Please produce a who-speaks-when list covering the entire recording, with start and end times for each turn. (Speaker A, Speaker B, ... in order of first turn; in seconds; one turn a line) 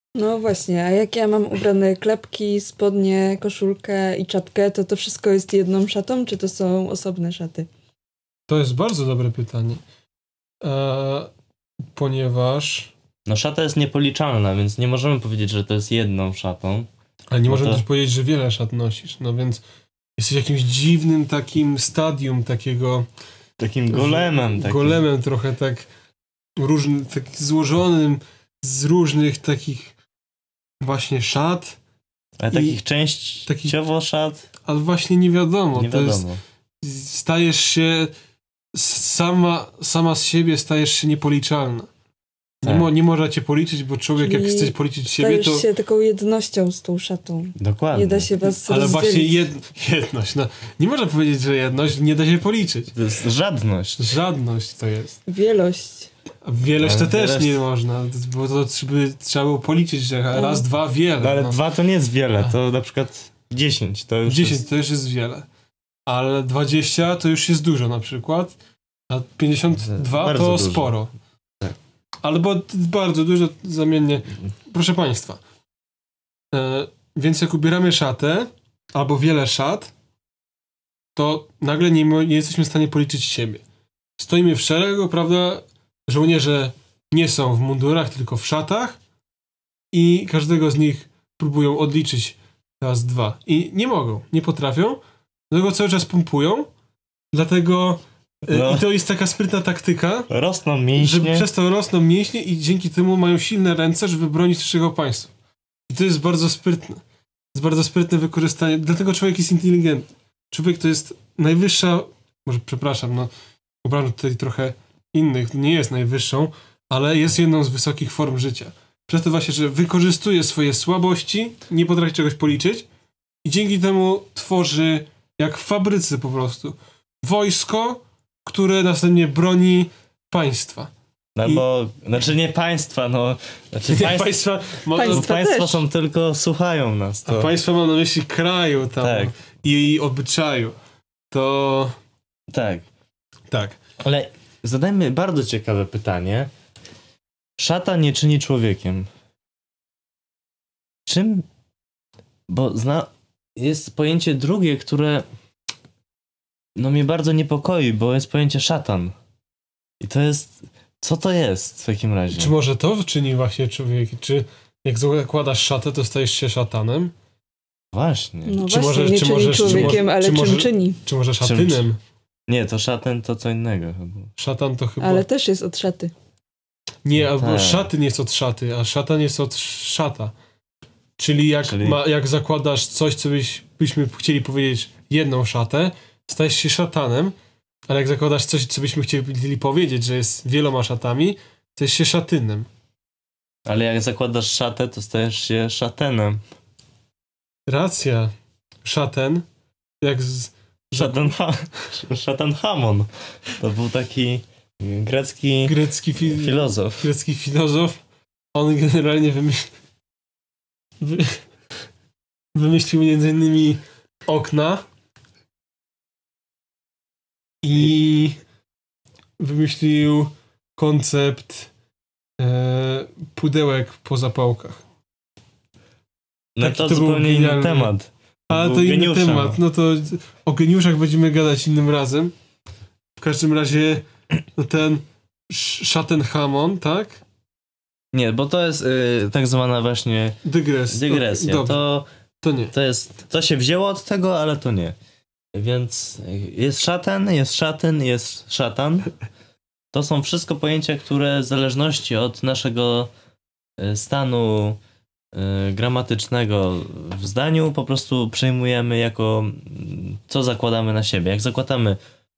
Speaker A: 0.1-7.7
Speaker B: 8.5-9.8
Speaker B: 10.6-11.3
Speaker B: 11.9-12.9
Speaker C: 13.3-16.9
Speaker B: 17.3-19.6
Speaker C: 17.5-17.8
Speaker B: 20.2-23.1
Speaker C: 23.6-25.0
Speaker B: 23.9-25.9
Speaker B: 26.6-29.9
Speaker B: 30.8-31.8
Speaker C: 32.4-34.5
Speaker B: 32.5-32.8
Speaker B: 33.5-33.8
Speaker B: 34.6-36.3
Speaker C: 35.7-36.4
Speaker B: 36.8-38.1
Speaker B: 38.7-41.9
Speaker B: 42.6-45.7
Speaker C: 42.6-42.9
Speaker A: 44.2-49.4
Speaker C: 47.6-48.3
Speaker B: 48.4-52.9
Speaker C: 52.9-54.0
Speaker B: 54.0-55.2
Speaker A: 55.3-56.1
Speaker B: 56.5-61.6
Speaker C: 56.8-57.6
Speaker A: 60.4-60.6
Speaker C: 61.2-64.6
Speaker B: 64.2-65.5
Speaker B: 66.1-68.6
Speaker B: 69.1-71.1
Speaker C: 69.9-70.9
Speaker B: 72.2-75.4
Speaker B: 76.5-79.9
Speaker B: 81.2-83.6
Speaker B: 84.2-89.0
Speaker B: 89.9-95.0
Speaker B: 95.5-96.7
Speaker B: 97.3-100.3
Speaker C: 98.5-98.9
Speaker C: 100.3-101.5
Speaker B: 101.0-105.3
Speaker B: 105.9-107.0
Speaker B: 107.5-113.3
Speaker B: 113.8-122.9
Speaker B: 123.4-130.9
Speaker C: 131.4-134.4
Speaker B: 133.9-135.3
Speaker A: 134.9-135.8
Speaker C: 135.0-137.5
Speaker B: 137.3-140.8
Speaker C: 139.0-139.3
Speaker B: 141.3-141.9
Speaker C: 142.5-142.9
Speaker B: 143.5-143.8
Speaker C: 144.0-146.5
Speaker C: 147.6-149.1
Speaker C: 151.1-151.5
Speaker C: 152.5-155.3
Speaker C: 156.8-159.2
Speaker C: 160.0-162.5
Speaker B: 162.3-167.1
Speaker C: 167.9-168.6
Speaker A: 168.5-171.0
Speaker B: 168.7-172.0
Speaker C: 169.6-170.0
Speaker C: 171.4-171.8
Speaker C: 172.5-174.3
Speaker B: 174.4-175.3
Speaker A: 175.0-176.1
Speaker B: 177.0-180.3
Speaker C: 177.2-177.9
Speaker B: 181.2-187.3
Speaker C: 181.6-182.0
Speaker B: 187.9-192.7
Speaker C: 193.7-196.4
Speaker B: 197.7-198.3
Speaker B: 198.8-199.4
Speaker B: 200.0-201.3
Speaker C: 201.0-207.1
Speaker B: 205.7-208.0
Speaker B: 208.5-209.7
Speaker B: 211.0-211.4
Speaker B: 212.6-214.8
Speaker B: 217.6-218.4
Speaker B: 219.4-221.7
Speaker B: 222.4-224.8
Speaker C: 226.6-229.6
Speaker B: 226.6-227.9
Speaker B: 228.5-232.3
Speaker B: 233.2-237.2
Speaker C: 238.1-240.4
Speaker B: 240.4-241.9
Speaker C: 240.9-242.1
Speaker B: 242.4-242.7
Speaker C: 242.7-245.0
Speaker C: 245.6-249.1
Speaker C: 249.9-253.1
Speaker C: 253.8-254.8
Speaker C: 255.3-262.0